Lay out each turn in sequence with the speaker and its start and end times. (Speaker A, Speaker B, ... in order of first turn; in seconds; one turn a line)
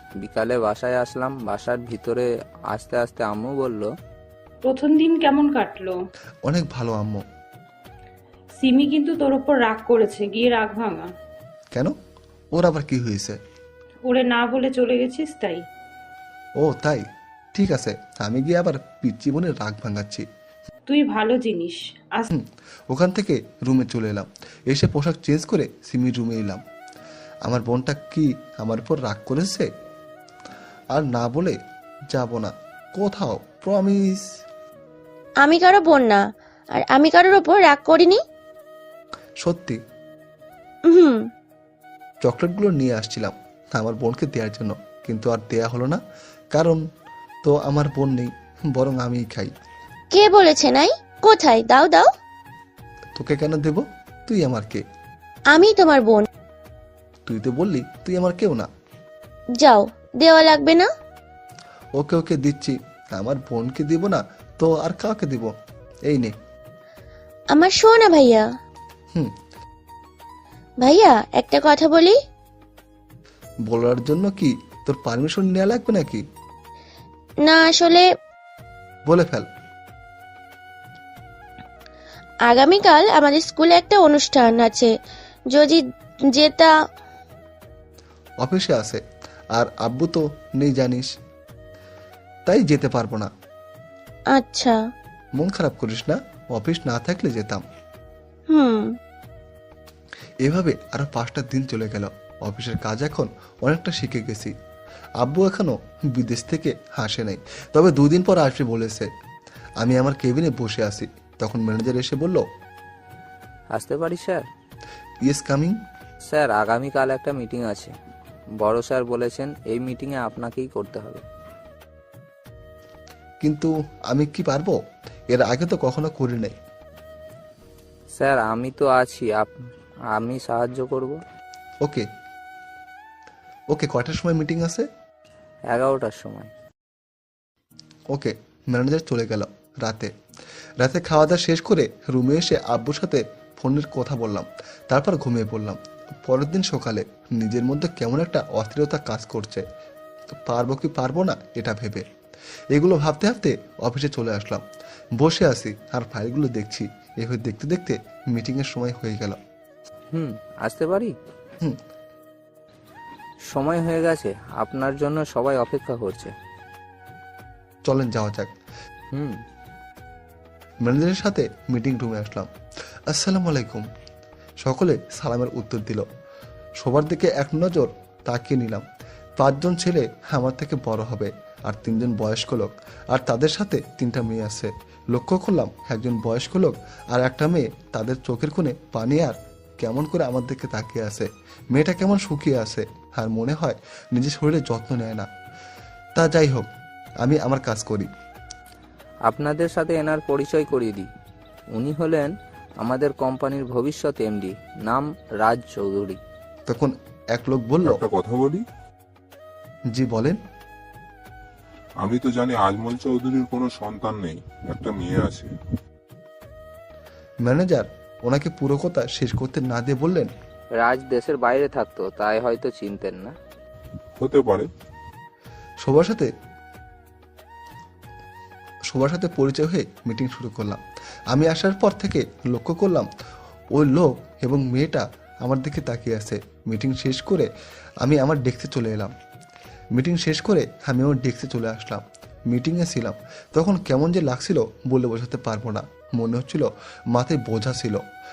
Speaker A: 0.2-3.9
Speaker B: 4.6-6.0
Speaker C: 6.4-7.2
Speaker B: 8.6-11.1
Speaker C: 12.5-13.4
Speaker B: 14.1-15.6
Speaker C: 16.6-20.2
Speaker B: 20.9-22.3
Speaker C: 22.3-26.6
Speaker C: 27.4-29.7
Speaker C: 30.9-31.6
Speaker C: 32.1-34.2
Speaker D: 35.4-36.2
Speaker D: 36.7-38.2
Speaker C: 39.4-39.8
Speaker D: 40.9-41.3
Speaker C: 42.2-46.0
Speaker C: 46.5-46.8
Speaker C: 47.4-49.5
Speaker D: 50.1-52.1
Speaker C: 53.2-54.8
Speaker D: 55.5-56.2
Speaker C: 57.3-58.7
Speaker D: 59.6-60.9
Speaker C: 62.0-65.5
Speaker C: 66.1-66.3
Speaker D: 67.5-68.4
Speaker D: 70.8-72.2
Speaker C: 73.7-76.2
Speaker D: 77.4-78.1
Speaker C: 79.1-79.5
Speaker D: 82.5-84.9
Speaker D: 85.5-86.7
Speaker C: 88.4-89.0
Speaker C: 89.5-91.1
Speaker C: 92.5-93.3
Speaker D: 94.3-94.8
Speaker C: 95.4-97.6
Speaker D: 98.5-99.0
Speaker C: 100.4-104.5
Speaker C: 105.2-109.1
Speaker C: 109.8-112.4
Speaker A: 113.7-114.5
Speaker C: 115.2-115.8
Speaker A: 116.3-117.9
Speaker A: 118.6-121.2
Speaker C: 123.4-124.8
Speaker C: 125.3-126.5
Speaker A: 128.2-129.5
Speaker A: 130.1-131.2
Speaker C: 133.7-134.9
Speaker A: 135.7-136.5
Speaker C: 138.1-140.1
Speaker C: 140.8-149.6
Speaker C: 150.4-152.1
Speaker C: 152.7-154.6
Speaker C: 155.2-159.4
Speaker A: 160.1-161.1
Speaker A: 163.5-166.3
Speaker C: 167.8-168.5
Speaker A: 169.1-169.4
Speaker C: 170.8-172.5
Speaker C: 173.1-173.8
Speaker C: 174.6-176.0
Speaker C: 176.8-178.8
Speaker C: 179.4-195.3
Speaker C: 196.2-196.7
Speaker C: 197.2-198.1
Speaker A: 199.3-201.1
Speaker A: 201.7-206.2
Speaker C: 206.7-208.0
Speaker E: 207.9-208.6
Speaker C: 209.9-210.4
Speaker E: 212.0-215.5
Speaker C: 217.4-220.3
Speaker A: 220.8-223.3
Speaker E: 224.2-224.7
Speaker C: 225.8-226.3
Speaker C: 228.9-230.8
Speaker C: 231.3-233.1
Speaker C: 233.7-237.5
Speaker C: 238.0-239.1
Speaker C: 239.9-248.0